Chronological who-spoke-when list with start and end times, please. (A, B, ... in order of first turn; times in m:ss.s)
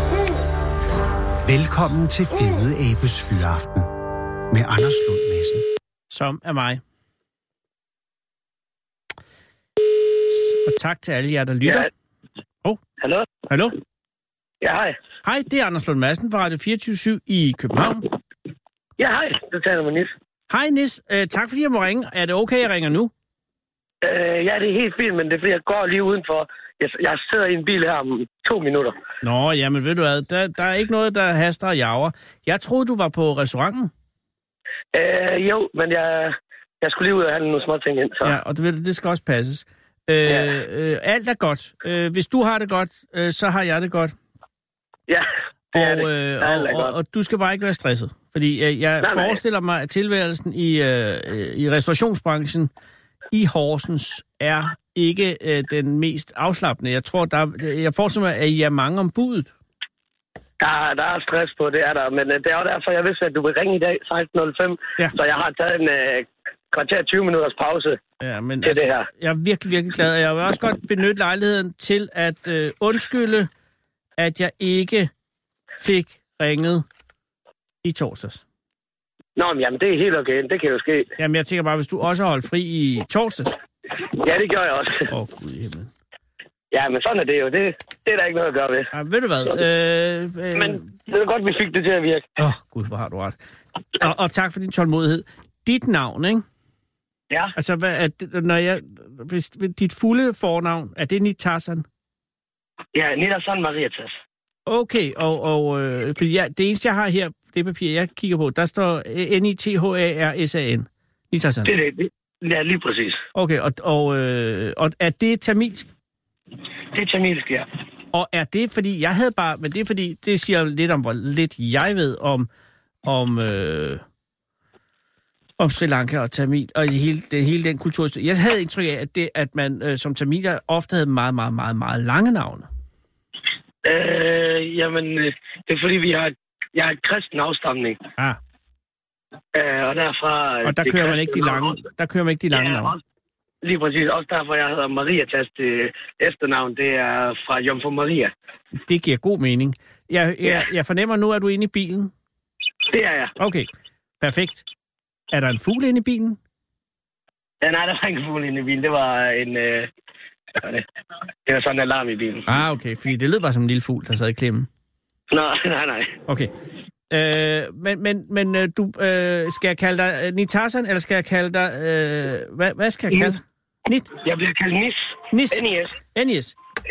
0:01.4-0:03.9 A
0:04.5-0:05.6 A
0:06.1-0:06.8 B
0:10.3-0:11.9 B
0:13.0-0:13.3 C
0:13.5-0:13.8 B
0:14.6-0:15.0 C
0:15.2-0:18.0 B
0:19.0-0:20.1 C
0:20.5-0:23.1 B
0:24.0-0:28.9 C
0:29.2-0:33.9 B
0:34.9-0:38.4 C
0:38.2-0:44.1 B
0:40.2-0:40.6 C
0:45.1-0:46.9 C
0:45.7-0:52.7 B
0:49.0-0:49.4 C
0:53.3-0:59.5 B
1:00.6-1:08.0 C
1:08.2-1:13.5 B
1:08.6-1:09.1 C
1:14.2-1:15.1 B
1:15.8-1:16.8 B
1:17.8-1:18.4 B
1:19.4-1:21.1 C
1:21.2-1:23.6 B
1:24.1-1:25.1 C
1:25.1-1:25.9 B
1:26.7-1:28.9 C
1:28.9-1:30.8 B
1:30.5-1:32.2 C
1:32.4-1:33.4 B
1:33.9-1:36.4 B
1:37.6-1:41.8 B
1:42.9-1:44.1 C
1:44.6-1:51.7 B
1:51.6-1:53.2 C
1:53.3-1:55.9 B
1:56.9-1:57.7 C
1:58.1-2:02.5 B
2:03.0-2:04.0 B
2:05.6-2:12.7 B
2:13.8-2:18.0 C
2:19.5-2:21.8 C
2:20.6-2:22.9 B
2:22.5-2:23.0 C
2:23.6-2:28.3 C
2:28.8-2:32.1 B
2:32.9-2:33.4 C
2:33.4-2:33.7 B
2:34.2-2:34.6 B
2:35.3-2:36.4 B
2:37.6-2:39.9 C
2:40.5-2:40.8 C
2:41.4-2:42.5 C
2:42.5-2:44.7 B
2:45.3-2:46.2 C
2:47.1-2:54.1 B
2:54.2-2:56.0 C
2:55.3-2:56.5 B